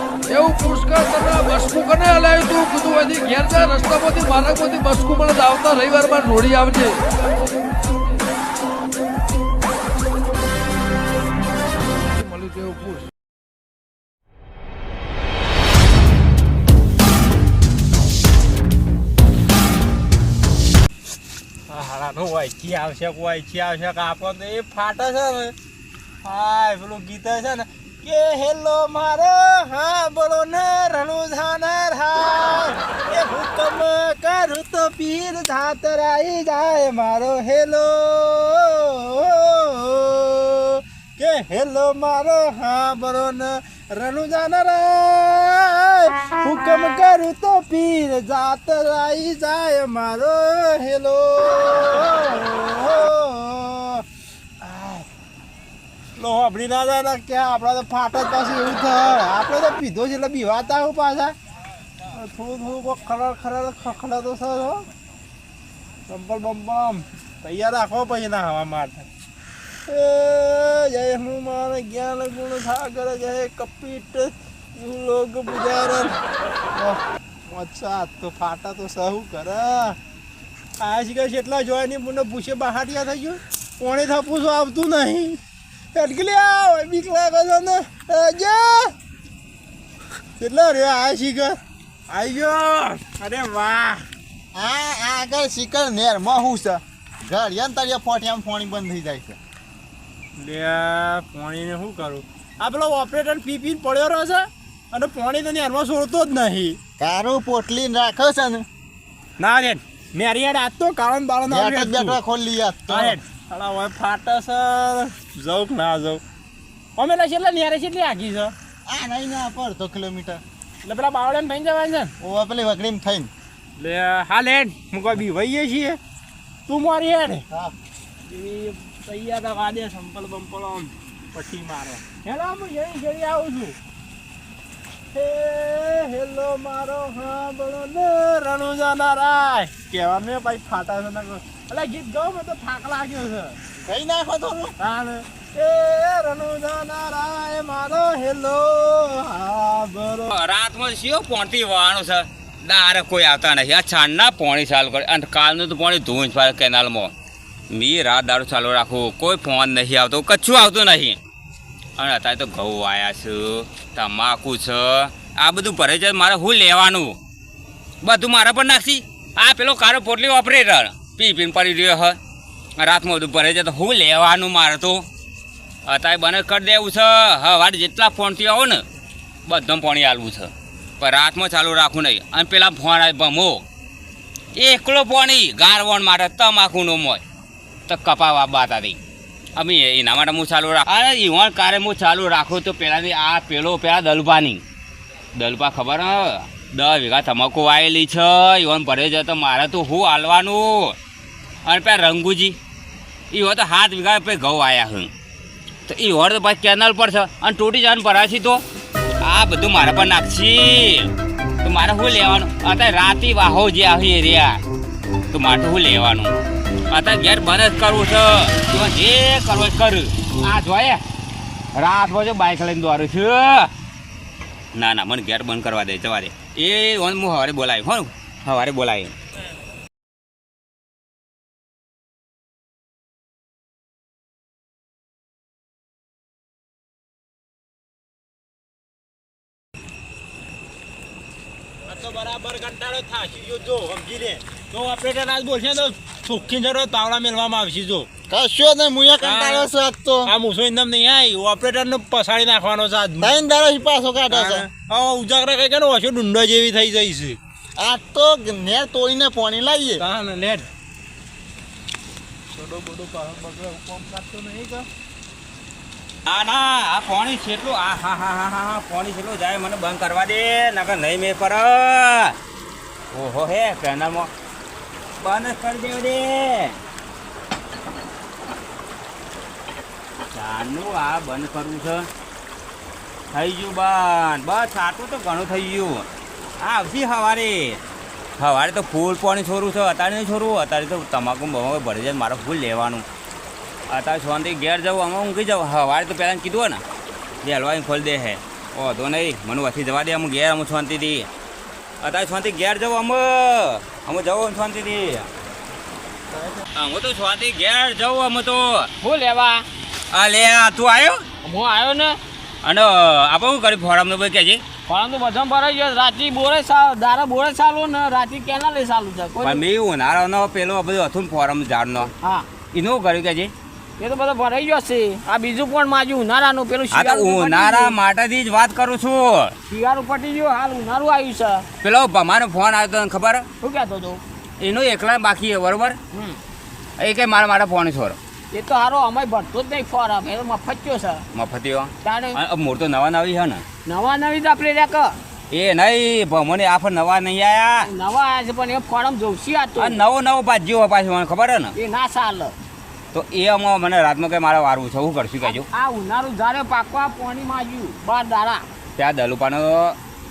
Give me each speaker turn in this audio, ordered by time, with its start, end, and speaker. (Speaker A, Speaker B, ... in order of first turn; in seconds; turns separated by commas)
Speaker A: 0.3-7.0, Speaker A: 12.2-13.1, Speaker B: 21.7-25.5, Speaker B: 26.2-54.0, Speaker B: 54.6-55.0, Speaker B: 56.1-61.3, Speaker B: 62.1-64.8, Speaker B: 66.1-69.0, Speaker B: 69.9-76.2, Speaker B: 76.7-80.0, Speaker B: 80.8-85.4, Speaker B: 85.9-88.9, Speaker B: 90.4-91.6, Speaker B: 92.1-94.0, Speaker C: 94.5-99.4, Speaker B: 100.4-106.8, Speaker C: 107.0-108.6, Speaker B: 109.4-112.2, Speaker C: 111.5-113.2, Speaker B: 112.9-116.2, Speaker B: 117.0-118.5, Speaker C: 118.8-120.4, Speaker B: 120.8-122.1, Speaker C: 122.2-123.3, Speaker B: 123.8-126.0, Speaker B: 126.7-127.4, Speaker B: 128.3-133.8, Speaker B: 135.1-143.6, Speaker C: 143.8-144.7, Speaker B: 144.8-150.3, Speaker D: 150.3-157.1, Speaker D: 157.7-161.2, Speaker D: 162.0-167.2, Speaker D: 168.0-172.2, Speaker D: 172.8-175.0, Speaker D: 175.8-178.8, Speaker D: 179.4-183.6, Speaker D: 184.5-187.2, Speaker D: 187.9-189.0, Speaker D: 189.6-194.6, Speaker D: 195.3-200.9, Speaker D: 201.6-202.6, Speaker D: 203.3-205.1, Speaker D: 205.9-208.6, Speaker D: 209.2-211.1, Speaker D: 211.6-214.6, Speaker D: 215.3-216.3, Speaker D: 216.9-221.0, Speaker D: 221.7-223.7, Speaker D: 224.7-229.1, Speaker B: 241.9-248.1, Speaker C: 248.3-250.3, Speaker B: 249.2-249.7, Speaker B: 250.2-253.3, Speaker C: 253.2-254.7, Speaker B: 254.3-257.4, Speaker C: 257.8-260.0, Speaker B: 260.0-260.7, Speaker B: 262.5-264.9, Speaker D: 266.2-272.3, Speaker D: 273.1-274.3, Speaker D: 275.2-276.8, Speaker D: 280.3-282.1, Speaker D: 283.3-286.1, Speaker D: 286.6-287.8, Speaker D: 288.4-293.0, Speaker D: 293.9-296.8, Speaker D: 297.4-301.3, Speaker D: 302.0-305.3, Speaker D: 306.7-308.9, Speaker E: 309.0-309.6, Speaker D: 310.1-311.2, Speaker E: 311.4-312.2, Speaker D: 312.6-314.6, Speaker E: 314.9-319.6, Speaker D: 319.4-322.1, Speaker E: 322.2-322.5, Speaker D: 322.7-323.5, Speaker E: 324.0-327.9, Speaker D: 326.9-329.5, Speaker E: 329.7-331.6, Speaker D: 331.8-333.4, Speaker E: 333.6-334.2, Speaker D: 334.6-336.0, Speaker E: 336.1-336.4, Speaker D: 337.0-338.2, Speaker E: 338.5-341.2, Speaker D: 341.3-343.6, Speaker E: 342.0-342.4, Speaker E: 343.8-345.2, Speaker D: 345.5-347.9, Speaker E: 347.8-350.0, Speaker D: 349.8-351.7, Speaker E: 351.7-352.5, Speaker D: 353.1-355.6, Speaker E: 355.4-358.6, Speaker D: 358.9-359.9